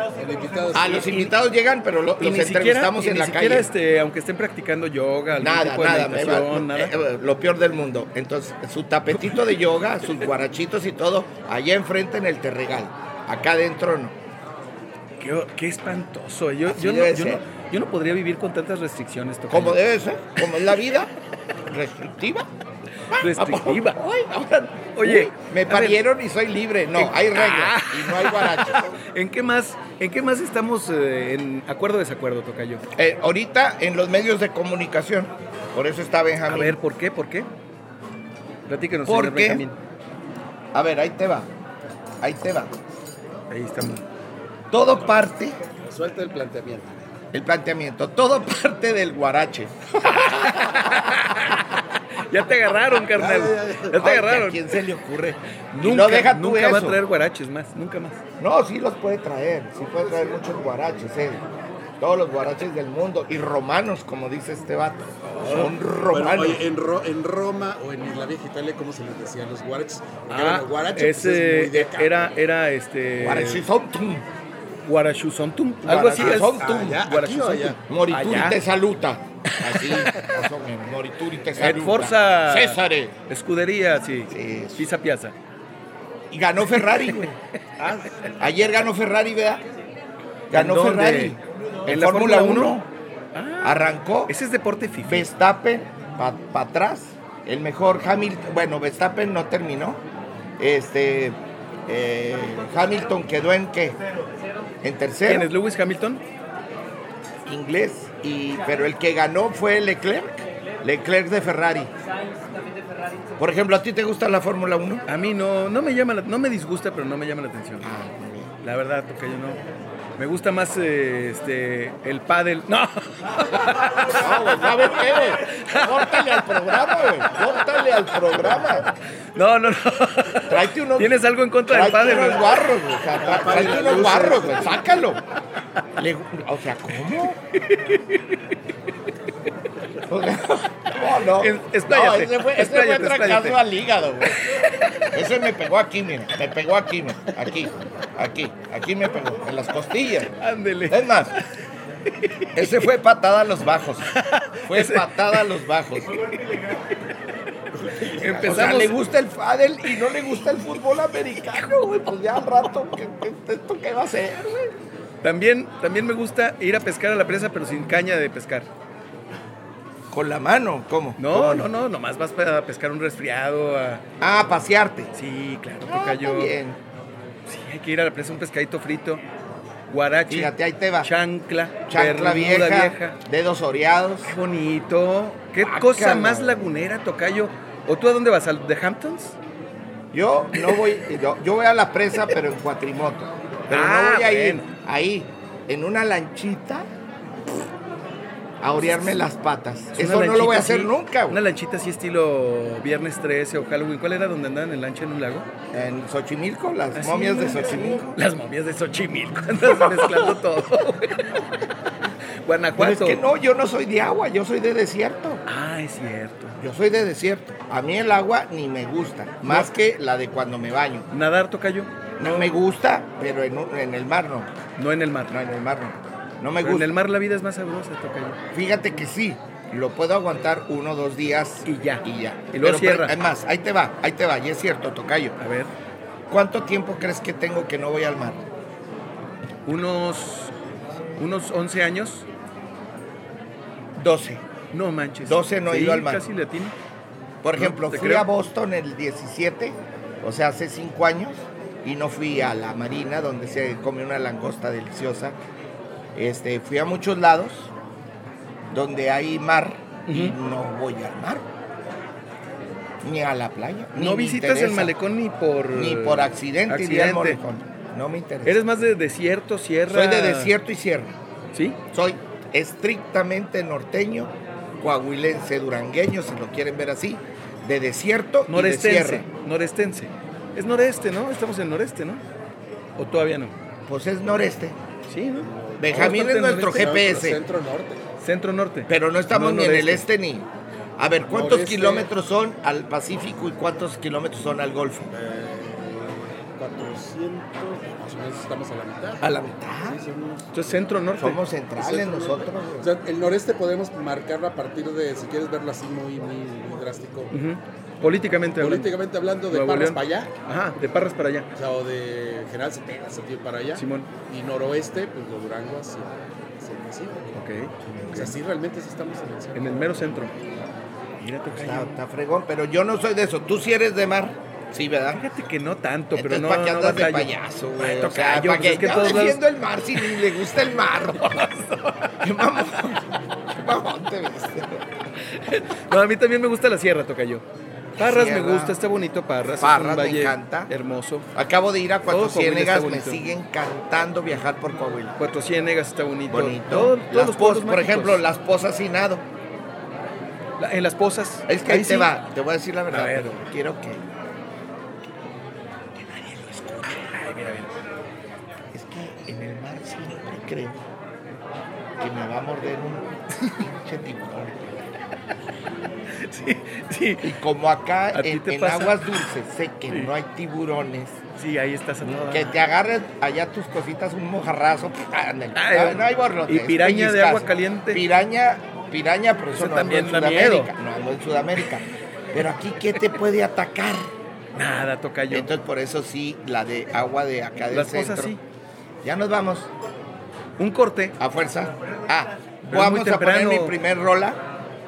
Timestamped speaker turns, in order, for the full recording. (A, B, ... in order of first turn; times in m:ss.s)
0:00.1-0:01.1 A
0:00.7-0:03.7 B
0:02.2-0:06.9 C
0:05.4-0:14.2 B
0:15.2-0:19.8 C
0:16.7-0:17.4 B
0:19.5-0:21.1 B
0:21.7-0:22.5 B
0:23.1-0:29.0 B
0:23.1-0:24.0 C
0:25.0-0:26.0 C
0:27.0-0:32.8 C
0:33.0-0:36.8 B
0:36.5-0:37.5 C
0:38.7-0:39.8 C
0:39.0-0:39.6 B
0:40.7-0:41.5 B
0:42.2-0:42.7 B
0:43.5-0:44.0 C
0:44.7-0:45.6 B
0:45.8-0:47.0 A
0:47.3-0:51.3 B
0:50.1-0:51.6 C
0:52.2-0:54.6 C
0:53.1-0:53.9 A
0:53.9-0:57.0 B
0:55.7-0:58.2 C
0:58.4-1:01.4 B
1:02.0-1:06.6 B
1:05.3-1:05.7 C
1:06.1-1:12.3 A
1:10.3-1:13.6 C
1:13.2-1:14.2 B
1:14.8-1:18.6 C
1:15.8-1:17.0 B
1:16.2-1:17.8 A
1:17.8-1:23.2 B
1:19.6-1:20.4 C
1:21.6-1:25.3 C
1:24.3-1:24.9 B
1:26.3-1:27.3 B
1:26.8-1:28.3 C
1:28.3-1:29.6 B
1:30.5-1:32.8 C
1:30.5-1:32.9 B
1:33.3-1:35.3 C
1:33.6-1:34.3 B
1:35.0-1:40.0 B
1:40.6-1:44.0 B
1:44.8-1:45.5 B
1:45.2-1:46.2 C
1:47.4-1:51.9 B
1:53.4-1:55.0 B
1:55.1-1:57.8 C
1:57.8-1:58.5 B
1:58.6-1:59.6 C
2:00.2-2:04.2 C
2:04.1-2:08.9 B
2:09.3-2:12.6 C
2:10.5-2:15.2 B
2:13.2-2:14.8 A
2:16.0-2:17.4 B
2:17.5-2:18.4 C
2:20.0-2:24.6 B
2:21.4-2:23.6 C
2:24.3-2:25.1 C
2:25.1-2:31.3 B
2:30.4-2:31.4 C
2:32.2-2:32.7 C
2:32.5-2:36.4 B
2:34.1-2:35.1 C
2:37.8-2:38.7 A
2:38.2-2:39.0 C
2:38.2-2:44.7 B
2:45.2-2:48.7 C
2:50.1-2:51.7 B
2:51.2-2:54.0 C
2:54.2-2:55.1 B
2:55.1-2:56.6 C
2:55.8-2:56.8 B
2:57.4-2:59.2 C
2:59.9-3:03.2 C
3:00.3-3:01.1 B
3:01.9-3:04.3 B
3:04.2-3:09.4 C
3:05.6-3:06.7 B
3:10.1-3:16.9 B
3:13.7-3:14.6 C
3:18.6-3:21.4 B
3:19.9-3:25.5 C
3:25.7-3:28.2 B
3:27.0-3:31.4 C
3:29.6-3:30.4 B
3:32.4-3:33.2 C
3:32.8-3:35.4 B
3:35.5-3:36.6 C
3:36.6-3:41.1 B
3:39.4-3:39.7 C
3:41.1-3:42.4 C
3:42.2-3:44.5 B
3:44.8-3:45.3 C
3:45.3-3:46.9 B
3:46.6-3:48.4 C
3:48.5-3:55.4 B
3:51.6-3:53.1 C
3:55.4-3:55.7 C
3:56.3-3:58.4 B
3:59.6-4:00.5 C
4:01.2-4:02.2 C
4:04.0-4:04.4 B
4:04.7-4:06.7 C
4:05.2-4:06.2 B
4:07.4-4:15.4 B
4:07.6-4:08.3 C
4:16.1-4:17.7 B
4:18.7-4:21.4 B
4:20.1-4:20.4 C
4:23.0-4:24.9 B
4:24.0-4:27.4 C
4:25.7-4:28.6 B
4:28.4-4:30.5 C
4:29.9-4:31.1 B
4:31.5-4:31.8 C
4:31.9-4:39.2 B
4:38.5-4:42.2 C
4:43.0-4:43.5 C
4:43.8-4:44.8 B
4:45.1-4:47.0 C
4:45.4-4:48.0 A
4:45.8-4:47.4 B
4:48.2-4:50.1 C
4:48.9-4:55.1 B
4:51.3-4:52.1 A
4:55.1-4:59.3 A
4:59.2-5:00.0 B
4:59.8-5:00.9 A
5:00.5-5:01.4 C
5:01.2-5:02.9 B
5:01.8-5:07.3 A
5:07.3-5:08.9 C
5:08.6-5:10.3 A
5:09.5-5:11.5 C
5:11.5-5:17.3 A
5:13.8-5:14.1 C
5:17.3-5:18.4 C
5:18.1-5:20.3 A
5:19.5-5:20.3 C
5:21.2-5:22.0 C
5:21.5-5:25.2 B
5:25.1-5:29.4 C
5:26.1-5:31.5 B
5:31.2-5:32.1 C
5:32.2-5:34.8 B
5:35.3-5:37.4 C
5:38.0-5:38.8 B
5:38.0-5:41.2 C
5:39.6-5:40.7 B
5:41.3-5:45.2 B
5:42.1-5:43.3 C
5:45.2-5:48.2 C
5:46.3-5:49.2 B
5:50.6-5:52.1 C
5:51.5-5:54.0 B
5:52.9-5:53.4 C
5:56.0-5:57.0 B
5:57.0-5:57.7 C
5:58.7-6:00.8 B
6:02.0-6:04.8 B
6:06.2-6:07.3 C
6:07.2-6:11.2 B
6:08.1-6:09.1 C
6:11.4-6:12.6 C
6:12.0-6:24.1 B
6:15.5-6:18.0 C
6:19.5-6:20.7 C
6:24.6-6:25.5 C
6:25.3-6:28.3 B
6:27.7-6:28.4 C
6:29.0-6:29.7 B
6:30.6-6:31.2 C
6:31.2-6:34.4 B
6:32.7-6:33.8 C